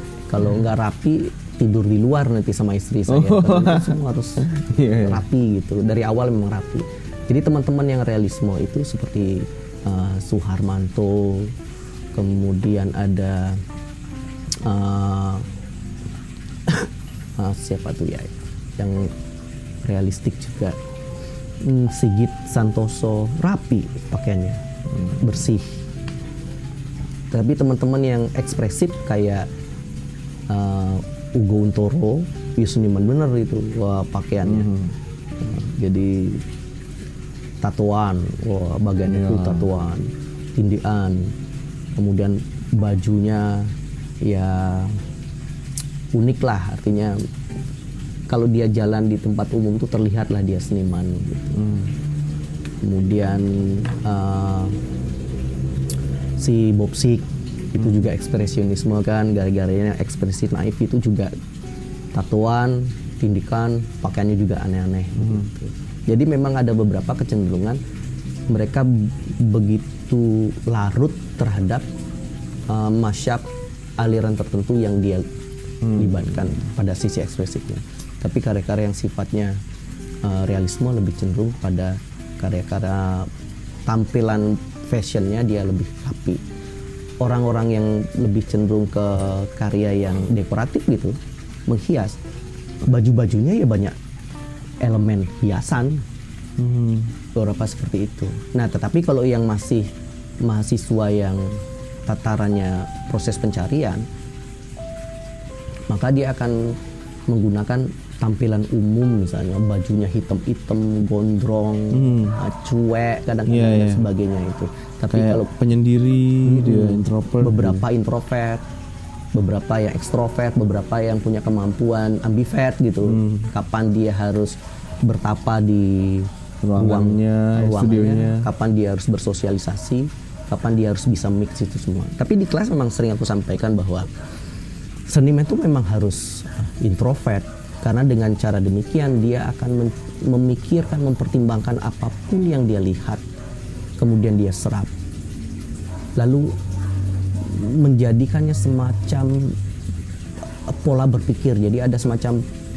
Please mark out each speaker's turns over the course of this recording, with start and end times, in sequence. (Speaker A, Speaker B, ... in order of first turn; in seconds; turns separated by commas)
Speaker A: 0.3-11.5, Speaker B: 3.1-5.2, Speaker A: 12.1-13.6, Speaker A: 14.6-15.4, Speaker A: 16.7-19.1, Speaker A: 19.8-20.8, Speaker A: 21.6-25.7, Speaker A: 27.3-29.5, Speaker A: 30.5-34.7, Speaker B: 34.4-34.9, Speaker A: 35.4-36.4, Speaker A: 37.6-41.3, Speaker B: 39.1-39.7, Speaker A: 42.0-45.0, Speaker A: 46.1-47.2, Speaker A: 48.3-51.6, Speaker B: 51.6-51.9, Speaker A: 52.8-54.8, Speaker A: 56.4-61.3, Speaker A: 62.1-67.8, Speaker B: 65.2-65.4, Speaker A: 68.5-71.8, Speaker A: 72.7-73.5, Speaker A: 74.0-75.2, Speaker B: 75.8-76.2, Speaker A: 75.9-79.6, Speaker A: 80.2-83.3, Speaker A: 83.9-86.4, Speaker A: 87.2-92.2, Speaker A: 92.8-94.0, Speaker A: 94.8-96.0, Speaker B: 96.6-97.1, Speaker A: 97.3-99.9, Speaker A: 100.4-104.1, Speaker A: 105.9-115.5, Speaker B: 111.9-112.4, Speaker B: 113.5-114.1, Speaker B: 115.1-117.8, Speaker A: 116.4-118.6, Speaker A: 119.3-134.1, Speaker B: 123.0-123.5, Speaker B: 126.6-128.5, Speaker A: 135.1-143.2, Speaker A: 144.0-144.9, Speaker A: 146.2-146.6, Speaker A: 147.4-149.6, Speaker A: 150.7-152.4